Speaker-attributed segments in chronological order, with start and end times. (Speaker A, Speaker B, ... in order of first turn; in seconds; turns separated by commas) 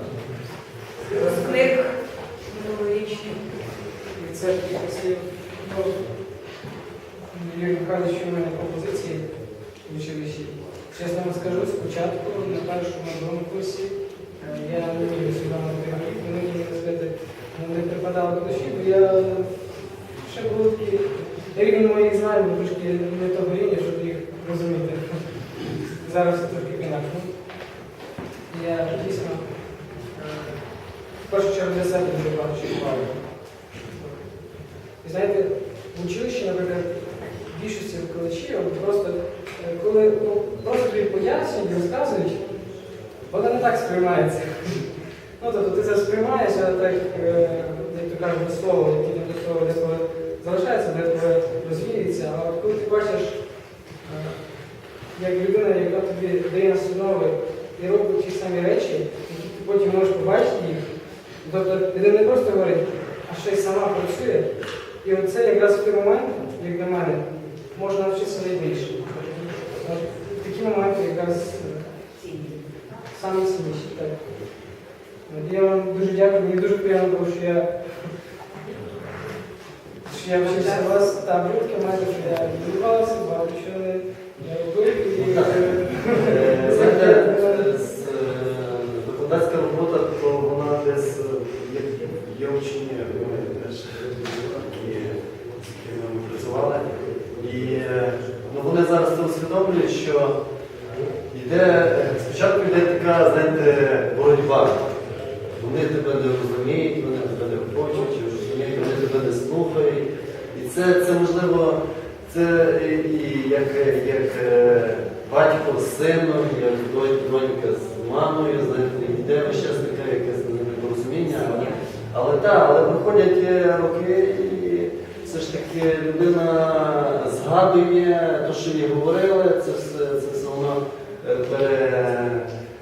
Speaker A: 1.1-1.7, Speaker B: 1.1-3.5, Speaker A: 4.1-6.0, Speaker A: 7.3-9.3, Speaker A: 9.8-19.6, Speaker A: 20.1-25.2, Speaker A: 25.9-27.3, Speaker A: 28.5-29.5, Speaker A: 30.1-30.6, Speaker A: 31.1-33.2, Speaker A: 33.9-34.2, Speaker A: 35.0-42.5, Speaker A: 43.3-44.9, Speaker A: 45.4-53.4, Speaker A: 54.0-54.5, Speaker A: 55.1-60.9, Speaker A: 61.4-64.5, Speaker A: 65.0-71.9, Speaker A: 73.1-74.2, Speaker A: 75.3-77.7, Speaker A: 80.0-87.7, Speaker B: 80.4-81.0, Speaker C: 85.1-100.3, Speaker C: 101.3-104.9, Speaker C: 105.5-132.5, Speaker B: 121.2-121.8